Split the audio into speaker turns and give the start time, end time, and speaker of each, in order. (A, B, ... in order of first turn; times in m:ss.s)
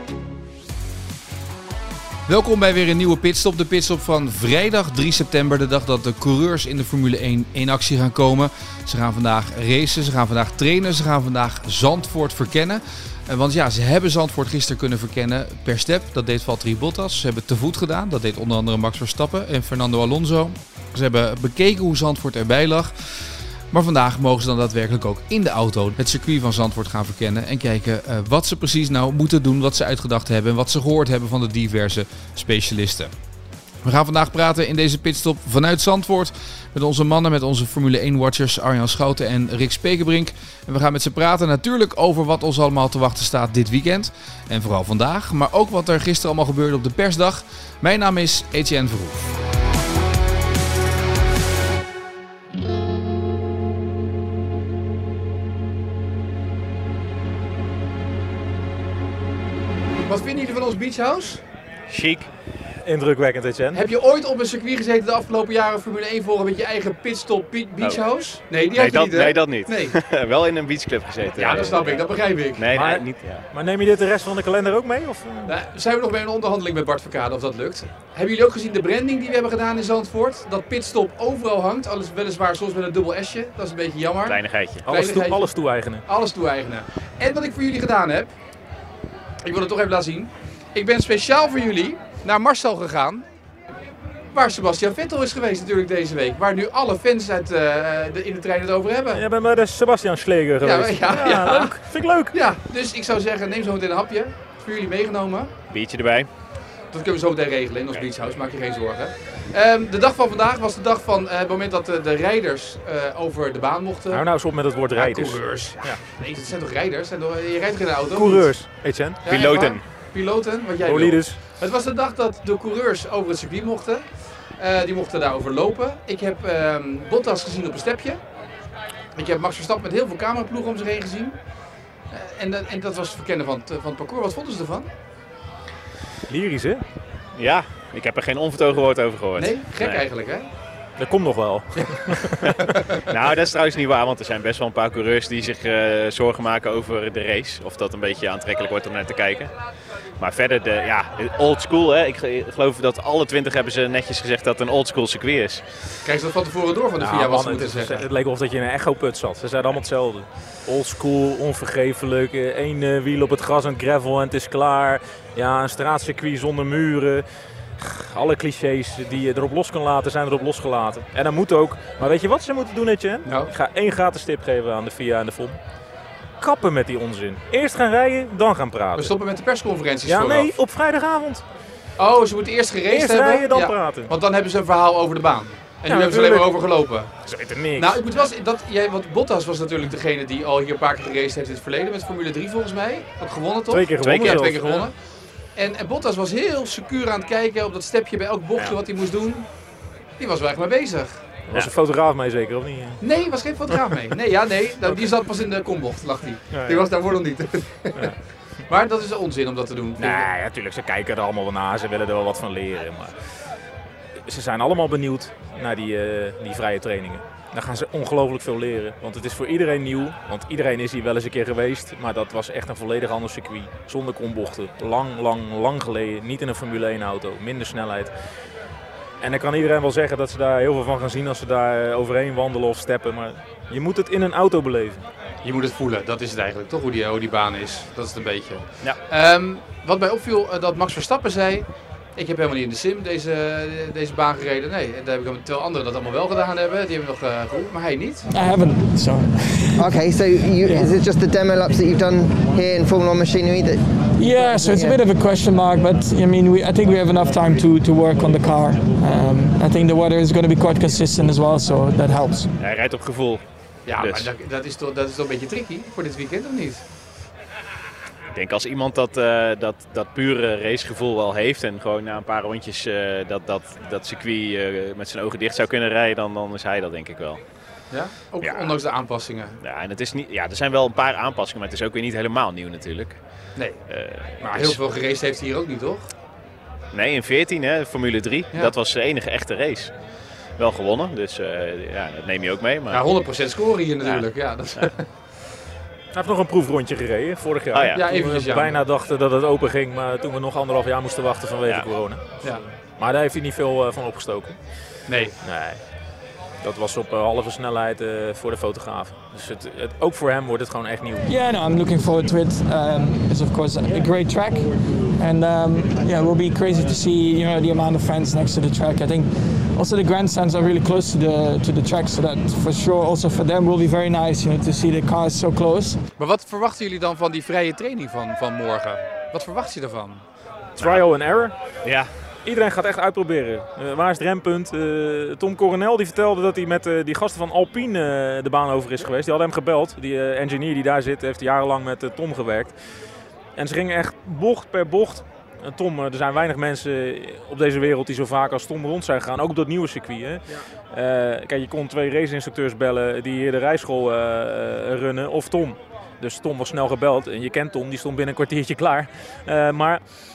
0:02.3-0:23.1 A
0:23.7-0:33.1 A
0:33.8-0:49.4 A
1:00.1-1:01.4 A
1:01.9-1:02.3 B
1:02.8-1:03.8 C
1:03.7-1:10.0 A
1:08.7-1:13.4 B
1:11.4-1:12.6 A
1:12.7-1:15.6 C
1:15.5-1:25.5 A
1:24.3-1:24.8 B
1:24.8-1:26.0 C
1:26.0-1:28.3 A
1:29.4-1:33.2 A
1:34.3-1:39.2 A
1:39.1-1:42.4 C
1:40.6-1:41.8 A
1:42.3-1:45.5 A
1:45.7-1:46.3 B
1:46.9-1:54.2 A
1:54.1-1:56.0 C
1:54.9-1:58.5 A
1:58.1-1:59.3 C
1:59.2-2:08.2 A
1:59.3-1:59.8 B
2:00.8-2:01.4 C
2:09.2-2:11.4 A
2:12.1-2:14.9 A
2:16.3-2:16.8 C
2:17.4-2:20.0 B
2:19.4-2:20.5 A
2:21.0-2:22.7 C
2:23.1-2:29.5 B
2:30.2-2:35.6 B
2:36.0-2:38.0 A
2:37.0-2:47.2 C
2:47.8-2:55.6 C
2:53.2-2:53.5 A
2:56.4-2:59.1 C
2:59.0-3:00.6 A
3:00.1-3:01.4 C
3:02.0-3:07.1 A
3:02.9-3:04.1 C
3:05.9-3:06.6 C
3:07.2-3:08.0 C
3:07.8-3:14.9 A
3:13.7-3:14.9 C
3:14.0-3:14.4 B
3:15.6-3:19.5 A
3:20.2-3:21.2 A
3:21.5-3:23.0 C
3:23.0-3:28.1 A
3:26.5-3:26.9 C
3:28.7-3:30.3 A
3:30.0-3:33.1 C
3:34.2-3:48.1 C
3:49.2-3:55.1 C
3:55.4-4:08.3 A
4:08.3-4:10.1 D
4:09.8-4:13.8 E
4:10.6-4:11.0 D
4:14.2-4:22.5 D
4:14.4-4:15.0 E
4:22.6-4:23.4 B
4:23.9-4:26.8 A
4:24.0-4:24.3 B
4:28.3-4:37.4 B
4:37.9-4:39.6 A
4:38.4-4:38.8 B
4:39.6-4:43.2 B
4:43.6-4:43.8 A
4:43.9-4:44.8 B
4:44.4-4:46.1 A
4:46.9-4:49.9 B
4:50.6-4:53.0 B
4:52.9-4:55.1 A
4:56.1-5:04.6 C
4:57.7-4:58.0 B
4:57.9-4:58.8 A
5:01.6-5:01.9 B
5:05.1-5:05.4 A
5:05.4-5:05.8 C
5:06.6-5:11.3 C
5:11.3-5:26.0 D
5:26.2-5:30.2 A
5:30.8-5:31.6 C
5:30.8-5:31.0 B
5:31.8-5:32.1 B
5:32.4-5:42.8 C
5:43.6-6:00.0 C